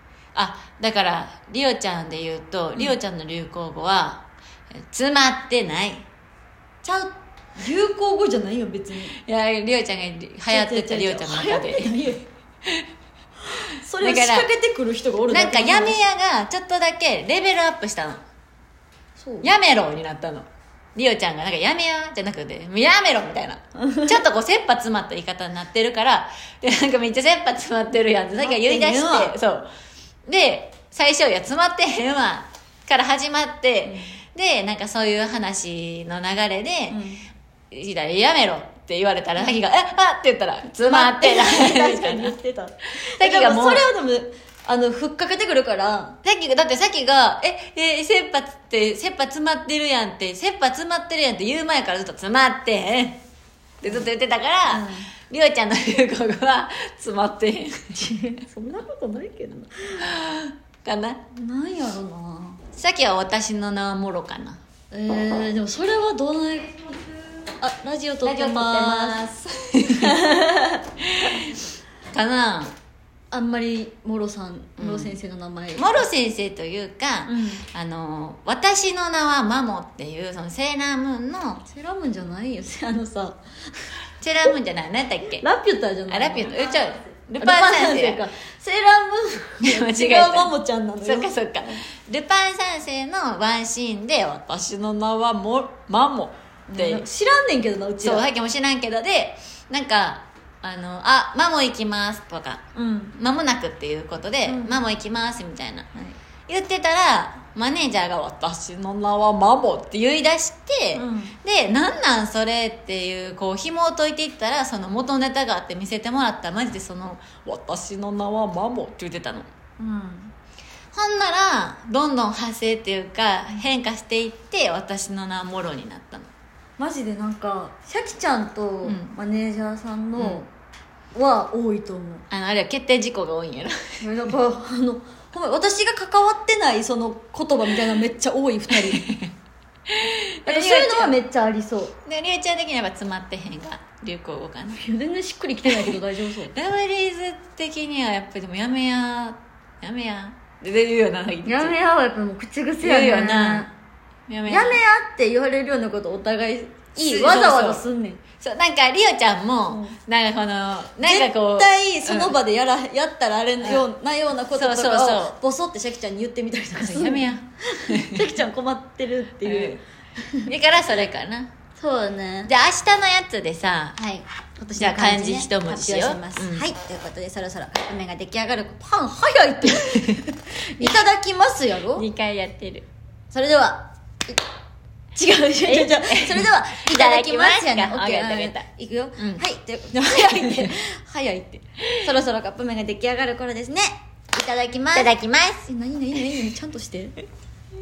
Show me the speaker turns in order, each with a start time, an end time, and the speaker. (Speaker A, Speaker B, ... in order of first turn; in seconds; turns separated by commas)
Speaker A: 0.3-4.2, Speaker A: 4.9-6.0, Speaker B: 6.8-9.2, Speaker A: 9.1-12.9, Speaker B: 10.5-12.2, Speaker B: 13.7-15.9, Speaker A: 13.9-14.5, Speaker A: 15.3-18.2, Speaker B: 19.2-19.5, Speaker A: 19.4-29.7, Speaker B: 28.4-29.3, Speaker A: 30.3-37.1, Speaker B: 36.9-37.2, Speaker A: 37.7-42.4, Speaker B: 40.8-46.2, Speaker A: 42.9-43.8, Speaker A: 46.2-53.2, Speaker A: 53.8-58.2, Speaker B: 54.7-55.1, Speaker B: 58.5-59.6, Speaker A: 60.0-61.2, Speaker B: 61.3-62.6, Speaker A: 62.7-64.6, Speaker B: 64.9-69.2, Speaker A: 68.2-70.5, Speaker B: 70.2-70.5, Speaker A: 71.0-71.6, Speaker A: 72.1-72.7, Speaker B: 73.3-75.9, Speaker A: 74.8-75.2, Speaker A: 75.8-81.7, Speaker B: 77.3-77.6, Speaker B: 81.7-83.4, Speaker A: 84.2-85.4, Speaker B: 85.4-86.9, Speaker A: 86.1-88.3, Speaker B: 87.4-91.3, Speaker A: 89.6-97.1, Speaker B: 96.7-98.2, Speaker A: 98.0-102.6, Speaker B: 102.8-103.2, Speaker A: 103.1-105.9, Speaker B: 104.5-104.8, Speaker A: 106.5-119.5, Speaker B: 110.9-111.3, Speaker B: 119.8-120.3, Speaker A: 120.9-126.3, Speaker B: 126.8-130.4, Speaker A: 128.8-129.2, Speaker A: 130.2-130.4, Speaker B: 131.1-132.2, Speaker A: 132.3-134.2, Speaker B: 134.0-139.0, Speaker A: 138.7-139.3, Speaker A: 139.9-141.2, Speaker B: 140.4-141.9, Speaker A: 142.0-144.8, Speaker B: 144.8-146.5, Speaker A: 145.6-151.8, Speaker B: 151.4-153.7, Speaker A: 152.8-153.7, Speaker A: 154.3-154.8, Speaker B: 154.4-158.2, Speaker A: 156.9-157.8, Speaker A: 158.4-162.4, Speaker B: 159.7-159.9, Speaker B: 161.0-167.2, Speaker A: 163.6-163.9, Speaker A: 164.5-165.4, Speaker A: 166.7-168.4, Speaker B: 167.9-169.7, Speaker A: 169.4-169.8, Speaker A: 170.4-171.5, Speaker B: 171.8-172.5, Speaker A: 172.4-174.0, Speaker B: 174.0-180.2, Speaker A: 174.8-176.7, Speaker A: 179.8-180.2, Speaker B: 180.8-182.0, Speaker A: 181.9-182.9, Speaker B: 183.3-184.4, Speaker B: 185.2-195.1, Speaker A: 185.6-189.4, Speaker A: 190.1-190.7, Speaker A: 194.9-195.7, Speaker B: 195.7-197.2, Speaker A: 196.2-196.4